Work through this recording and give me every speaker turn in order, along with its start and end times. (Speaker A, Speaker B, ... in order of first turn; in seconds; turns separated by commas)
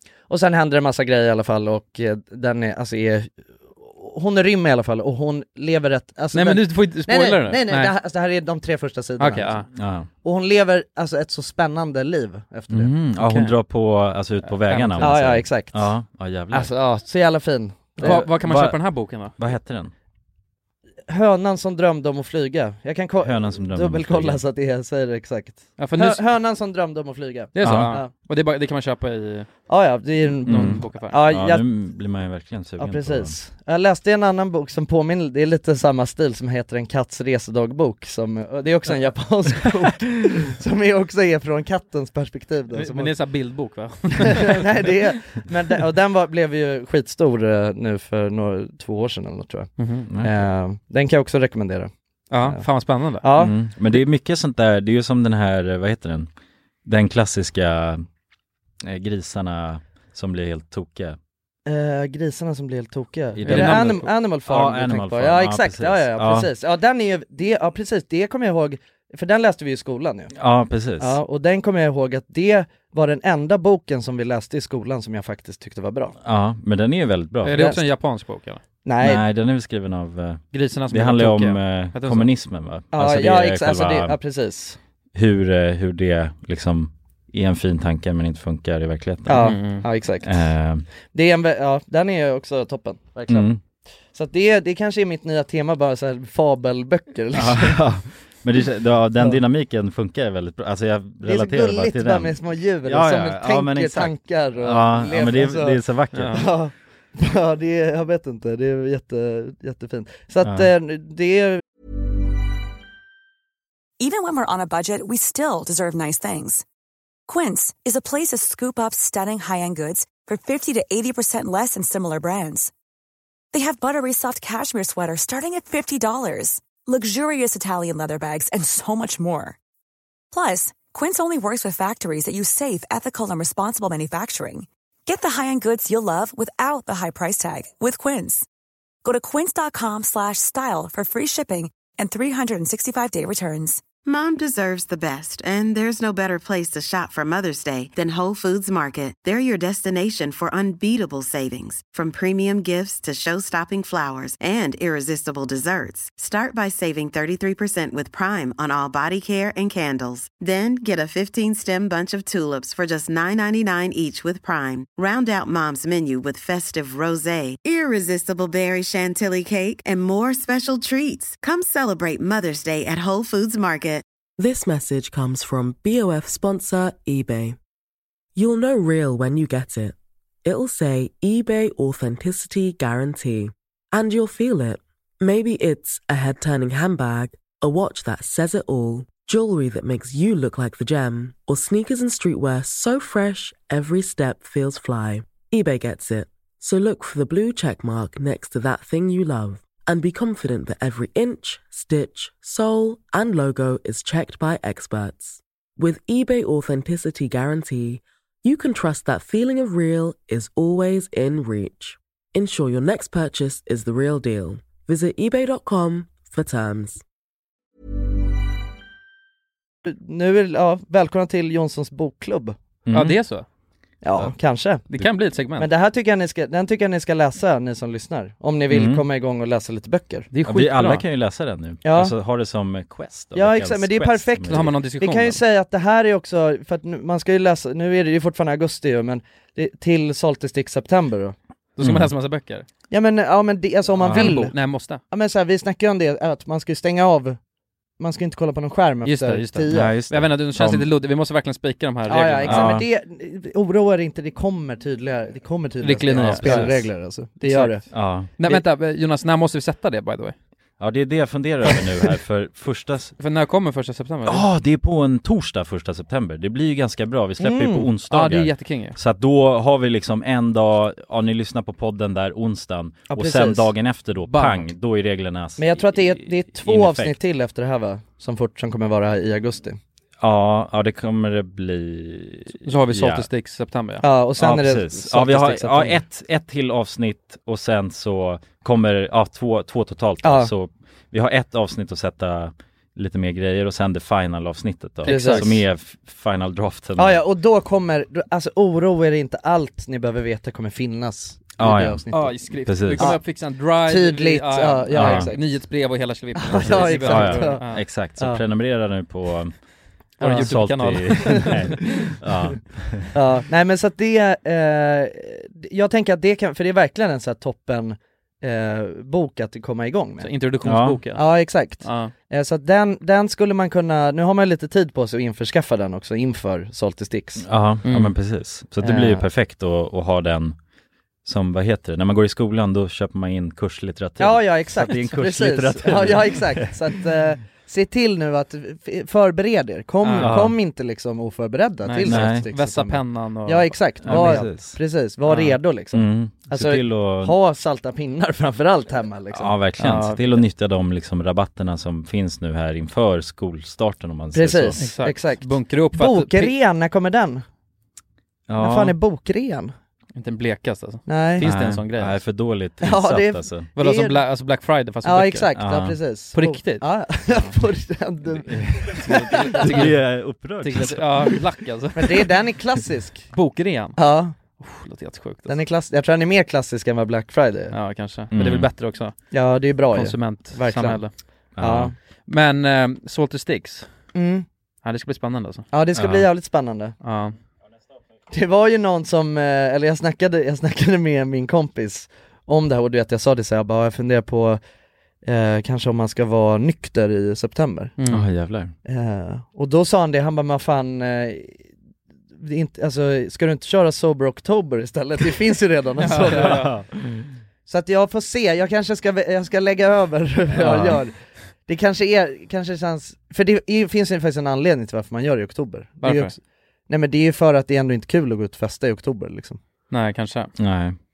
Speaker A: 0.3-9.6, Speaker B: 6.3-8.0, Speaker B: 9.2-9.7, Speaker C: 9.7-10.1, Speaker A: 10.2-12.9, Speaker C: 12.7-16.7, Speaker B: 13.2-13.5, Speaker B: 14.5-15.2, Speaker A: 15.0-15.9, Speaker A: 16.5-18.2, Speaker C: 18.0-19.9, Speaker B: 18.0-19.4, Speaker A: 21.1-28.1, Speaker C: 23.2-24.4, Speaker B: 25.8-26.2, Speaker B: 27.5-29.5, Speaker C: 27.6-27.9, Speaker A: 29.7-31.6, Speaker C: 30.5-33.3, Speaker B: 30.5-31.2, Speaker A: 32.8-43.1, Speaker B: 42.7-44.9, Speaker A: 44.3-51.9, Speaker B: 49.8-50.1, Speaker B: 52.3-53.2, Speaker A: 53.2-53.5, Speaker C: 53.4-56.3, Speaker C: 56.9-58.0, Speaker C: 58.8-61.2, Speaker A: 61.7-70.3, Speaker C: 63.4-66.5, Speaker B: 63.4-64.1, Speaker C: 70.3-71.2, Speaker A: 71.0-76.2, Speaker C: 76.2-77.6, Speaker B: 77.4-78.6, Speaker A: 77.5-77.8, Speaker A: 78.8-79.2, Speaker C: 79.0-84.2, Speaker B: 80.5-82.3, Speaker A: 82.9-84.8, Speaker C: 85.2-89.7, Speaker A: 89.3-90.4, Speaker B: 89.4-89.8, Speaker C: 90.2-90.9, Speaker A: 91.1-93.5, Speaker C: 93.3-93.6, Speaker A: 94.1-97.8, Speaker C: 97.3-106.4, Speaker A: 101.2-105.8, Speaker B: 106.1-106.5, Speaker A: 106.3-111.6, Speaker C: 110.4-110.7, Speaker D: 114.0-116.6, Speaker D: 117.3-122.7, Speaker D: 123.5-129.6, Speaker D: 130.3-138.5, Speaker D: 139.0-143.8, Speaker E: 144.1-174.1, Speaker F: 174.4-177.6, Speaker F: 178.3-217.0, Speaker A: 219.8-222.6, Speaker C: 222.9-223.2, Speaker B: 222.9-223.5, Speaker A: 224.0-224.9, Speaker B: 224.9-225.7, Speaker A: 225.6-230.3, Speaker C: 228.7-229.0, Speaker B: 230.3-231.0, Speaker C: 230.4-234.8, Speaker A: 231.8-232.1, Speaker A: 233.3-241.3, Speaker B: 234.5-235.4, Speaker B: 241.8-242.7, Speaker C: 241.8-242.1, Speaker A: 242.9-244.6, Speaker C: 244.0-244.3, Speaker B: 244.1-245.0, Speaker A: 245.1-247.4, Speaker A: 248.0-250.0, Speaker B: 249.0-252.8, Speaker C: 249.7-250.8, Speaker A: 252.1-257.8, Speaker C: 252.4-252.8, Speaker B: 255.8-256.9, Speaker C: 256.2-256.8, Speaker B: 257.4-260.4, Speaker C: 257.9-258.3, Speaker C: 260.8-263.1, Speaker B: 263.2-264.4, Speaker C: 264.3-277.1, Speaker A: 267.4-267.9, Speaker B: 268.1-269.0, Speaker A: 273.1-273.7, Speaker B: 274.3-274.6, Speaker A: 275.6-279.8, Speaker C: 280.2-283.3, Speaker B: 282.6-284.1, Speaker A: 284.0-286.0, Speaker C: 284.4-297.2, Speaker A: 290.2-290.5, Speaker B: 295.1-295.6, Speaker A: 295.1-295.6, Speaker A: 297.0-302.4, Speaker C: 301.6-303.2, Speaker B: 302.1-307.8, Speaker A: 303.8-305.4, Speaker C: 304.9-305.3, Speaker A: 306.4-307.6, Speaker C: 306.5-309.5, Speaker B: 310.2-311.6, Speaker A: 310.2-310.5, Speaker C: 310.2-313.1, Speaker A: 313.1-320.3, Speaker B: 320.2-321.2, Speaker C: 320.6-321.0, Speaker A: 321.1-327.4, Speaker B: 321.8-322.1, Speaker C: 327.4-330.6, Speaker B: 327.9-328.1, Speaker A: 328.8-329.2, Speaker C: 331.2-336.7, Speaker A: 334.2-349.5, Speaker B: 340.0-340.4, Speaker C: 340.2-340.6, Speaker B: 341.8-344.6, Speaker C: 342.0-342.5, Speaker C: 344.0-344.8, Speaker B: 345.3-345.6, Speaker C: 345.9-347.4, Speaker C: 349.3-354.8, Speaker B: 349.8-350.4, Speaker A: 354.3-357.4, Speaker B: 354.8-356.5, Speaker C: 358.5-359.0, Speaker A: 358.6-359.7, Speaker B: 360.1-362.2, Speaker A: 361.1-361.5, Speaker C: 361.4-363.7, Speaker A: 362.8-364.2, Speaker B: 363.8-365.5, Speaker A: 365.0-369.9, Speaker C: 365.6-366.0, Speaker B: 366.4-366.9, Speaker C: 368.4-371.4, Speaker B: 369.0-370.0, Speaker B: 370.6-372.3, Speaker A: 372.0-373.3, Speaker B: 373.3-374.0, Speaker A: 374.0-374.3, Speaker B: 374.6-375.6, Speaker A: 375.5-377.7, Speaker B: 377.7-379.1, Speaker C: 378.3-378.7, Speaker A: 379.3-381.0, Speaker B: 379.9-381.1, Speaker C: 381.6-381.9, Speaker A: 381.6-381.9, Speaker B: 382.3-383.9, Speaker A: 384.1-384.4, Speaker B: 384.8-385.7, Speaker A: 385.7-386.9, Speaker C: 385.9-386.3, Speaker B: 387.0-387.4, Speaker A: 388.3-394.6, Speaker A: 395.2-397.9, Speaker B: 398.0-398.3, Speaker C: 398.1-398.7, Speaker A: 398.9-401.6, Speaker A: 402.4-406.7, Speaker B: 406.0-406.8, Speaker C: 406.4-407.3, Speaker A: 407.7-419.6, Speaker C: 410.6-410.9, Speaker B: 416.0-416.3, Speaker B: 419.9-420.5, Speaker C: 420.6-421.0